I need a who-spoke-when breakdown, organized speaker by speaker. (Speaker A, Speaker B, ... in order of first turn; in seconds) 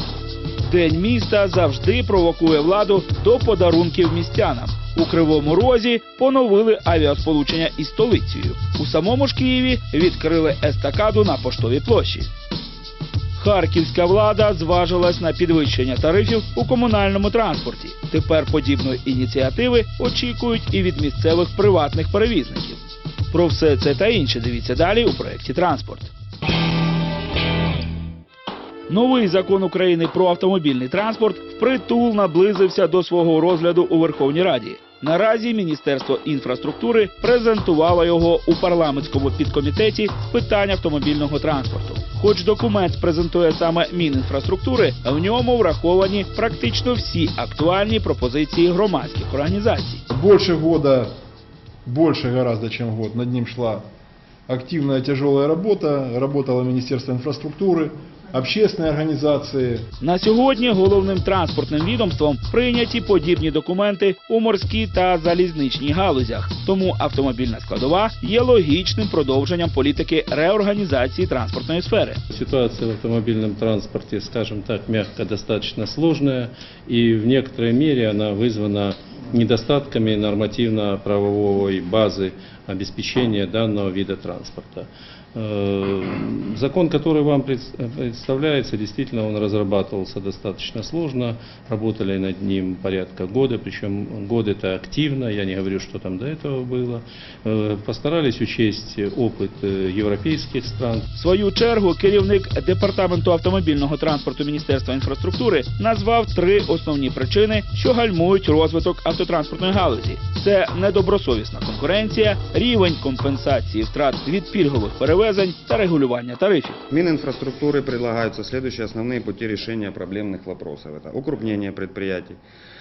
Speaker A: 0.6-12.3, 13.4-26.1, 28.9-50.0, 60.0-72.2, 101.2-116.8
Speaker B: 50.1-51.1, 51.9-53.8, 54.5-59.9
Speaker C: 72.3-101.1
Speaker D: 116.9-122.4